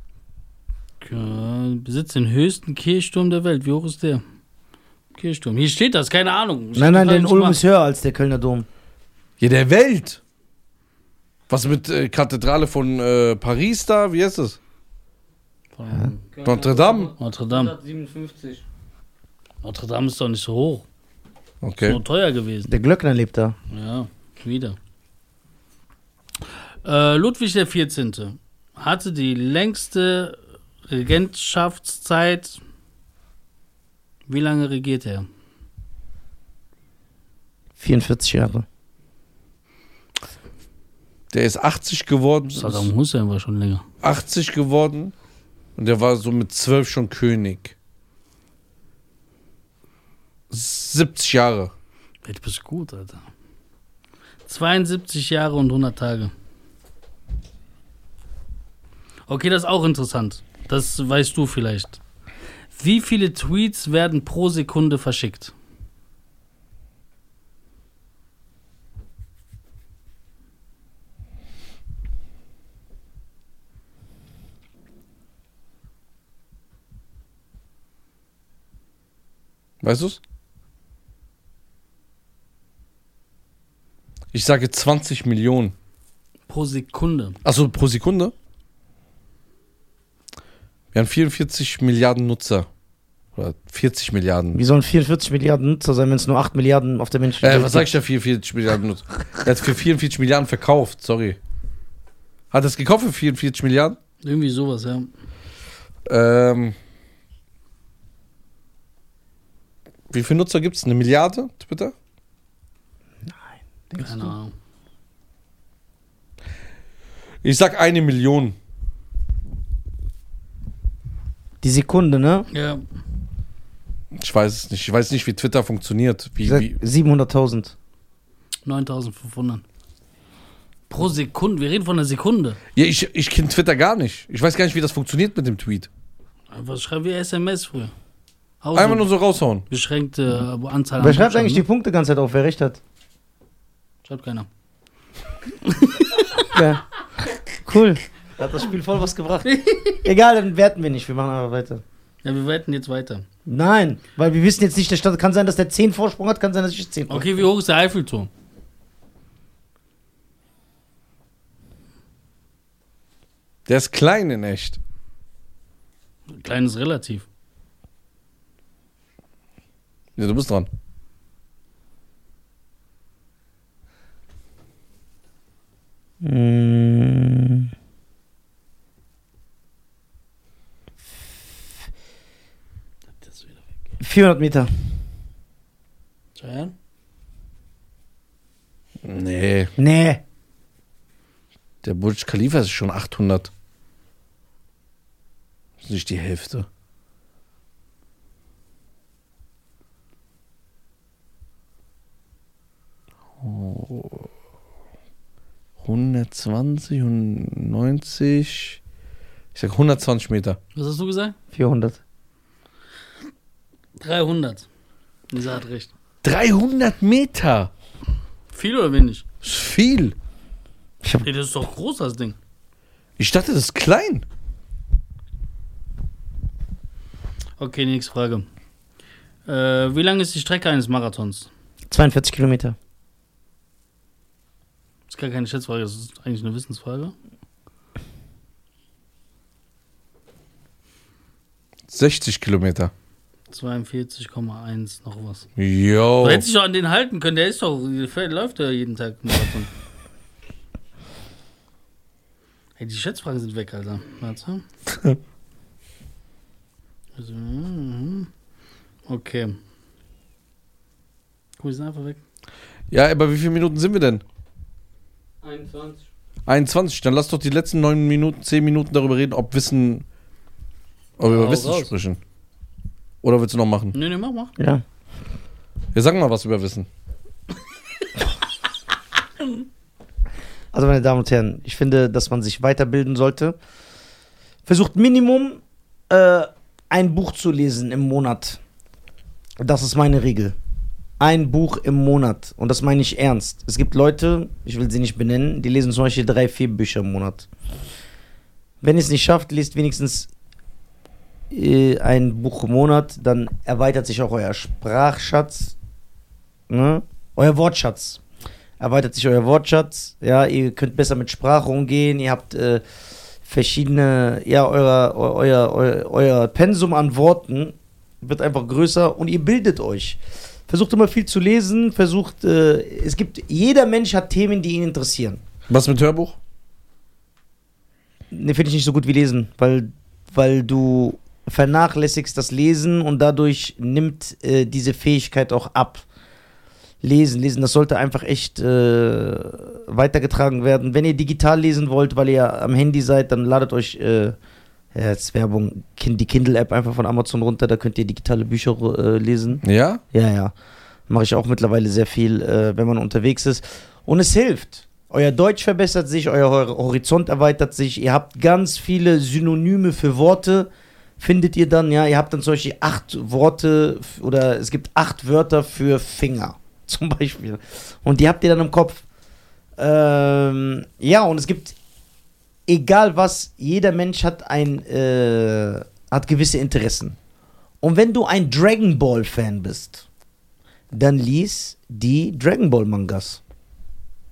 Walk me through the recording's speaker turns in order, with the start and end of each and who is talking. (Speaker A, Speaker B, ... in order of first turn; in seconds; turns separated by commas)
Speaker A: 1.0-4.2, Speaker A: 5.1-7.6, Speaker B: 6.8-8.7, Speaker C: 9.4-10.2, Speaker C: 11.5-14.6, Speaker A: 15.7-16.2, Speaker D: 16.3-18.6, Speaker C: 16.4-17.1, Speaker A: 17.2-17.7, Speaker A: 19.6-20.8, Speaker C: 21.6-22.0, Speaker A: 21.8-22.7, Speaker B: 22.7-23.6, Speaker A: 23.7-24.8, Speaker A: 26.8-32.6, Speaker A: 34.3-35.3, Speaker B: 37.8-38.6, Speaker C: 41.3-42.9, Speaker A: 42.5-43.8, Speaker C: 44.0-45.1, Speaker C: 45.8-47.7, Speaker C: 50.5-51.7, Speaker A: 52.2-53.2, Speaker A: 54.5-56.3, Speaker A: 59.3-62.0, Speaker A: 62.8-65.5, Speaker C: 79.8-80.2, Speaker C: 84.3-85.7, Speaker A: 86.5-87.4, Speaker C: 87.4-88.3, Speaker C: 90.9-92.7, Speaker C: 93.3-94.6, Speaker B: 94.5-97.9, Speaker C: 97.4-101.4, Speaker C: 102.5-104.0, Speaker A: 104.2-105.1, Speaker C: 106.1-106.8, Speaker C: 110.1-111.9, Speaker B: 113.9-114.3, Speaker A: 114.0-114.5, Speaker C: 117.4-118.5, Speaker B: 121.6-122.5, Speaker A: 122.5-122.8, Speaker C: 124.1-126.8, Speaker B: 126.4-127.7, Speaker A: 128.6-129.6, Speaker A: 130.9-132.6, Speaker C: 132.7-135.9, Speaker A: 136.5-137.9, Speaker A: 138.6-139.1, Speaker C: 138.7-139.7, Speaker A: 139.7-141.6, Speaker B: 141.0-142.8, Speaker A: 144.0-144.5, Speaker A: 145.6-146.5, Speaker B: 146.5-146.8, Speaker B: 147.6-149.5, Speaker A: 149.4-150.0, Speaker B: 150.0-151.8, Speaker A: 152.2-153.2, Speaker B: 153.5-157.4, Speaker A: 157.1-158.3, Speaker C: 163.7-164.8, Speaker A: 166.3-167.2, Speaker C: 170.2-170.7, Speaker B: 176.2-177.7, Speaker A: 183.2-183.6, Speaker B: 184.0-184.7, Speaker A: 186.3-186.7, Speaker C: 189.0-189.7, Speaker B: 189.8-190.2, Speaker C: 191.8-193.5, Speaker C: 195.8-196.7, Speaker C: 203.4-204.3, Speaker C: 205.8-208.8, Speaker C: 209.5-210.6, Speaker A: 210.7-211.3, Speaker B: 211.5-212.0, Speaker A: 214.0-214.7, Speaker A: 215.3-215.9, Speaker C: 216.2-217.7, Speaker A: 218.5-219.2, Speaker C: 219.4-220.1, Speaker A: 221.2-222.3, Speaker C: 223.2-224.2, Speaker A: 227.6-228.4, Speaker A: 229.4-231.5, Speaker B: 231.9-232.7, Speaker A: 235.1-237.1, Speaker C: 241.9-242.9, Speaker A: 243.5-245.5, Speaker C: 245.6-246.4, Speaker A: 246.2-249.7, Speaker A: 252.8-254.6, Speaker C: 254.9-255.2, Speaker A: 257.1-258.3, Speaker A: 259.1-259.6, Speaker A: 261.6-262.2, Speaker C: 262.9-264.2, Speaker D: 265.4-266.1, Speaker C: 266.5-270.0, Speaker C: 271.2-272.2, Speaker A: 271.2-271.9, Speaker C: 273.2-273.9, Speaker A: 273.9-274.5, Speaker B: 274.6-274.8, Speaker C: 275.9-276.9, Speaker B: 280.7-283.6, Speaker B: 284.6-288.6, Speaker B: 289.6-290.6, Speaker B: 291.2-297.5, Speaker B: 298.8-300.3, Speaker B: 301.5-305.7, Speaker B: 306.7-308.2, Speaker B: 308.8-312.8, Speaker B: 313.4-325.4, Speaker C: 325.7-326.4, Speaker B: 328.3-336.0, Speaker B: 337.0-344.4, Speaker B: 344.9-350.5, Speaker C: 349.6-350.0, Speaker B: 351.1-369.0, Speaker B: 369.8-371.8, Speaker B: 372.7-377.1, Speaker B: 377.8-380.0, Speaker B: 380.9-383.4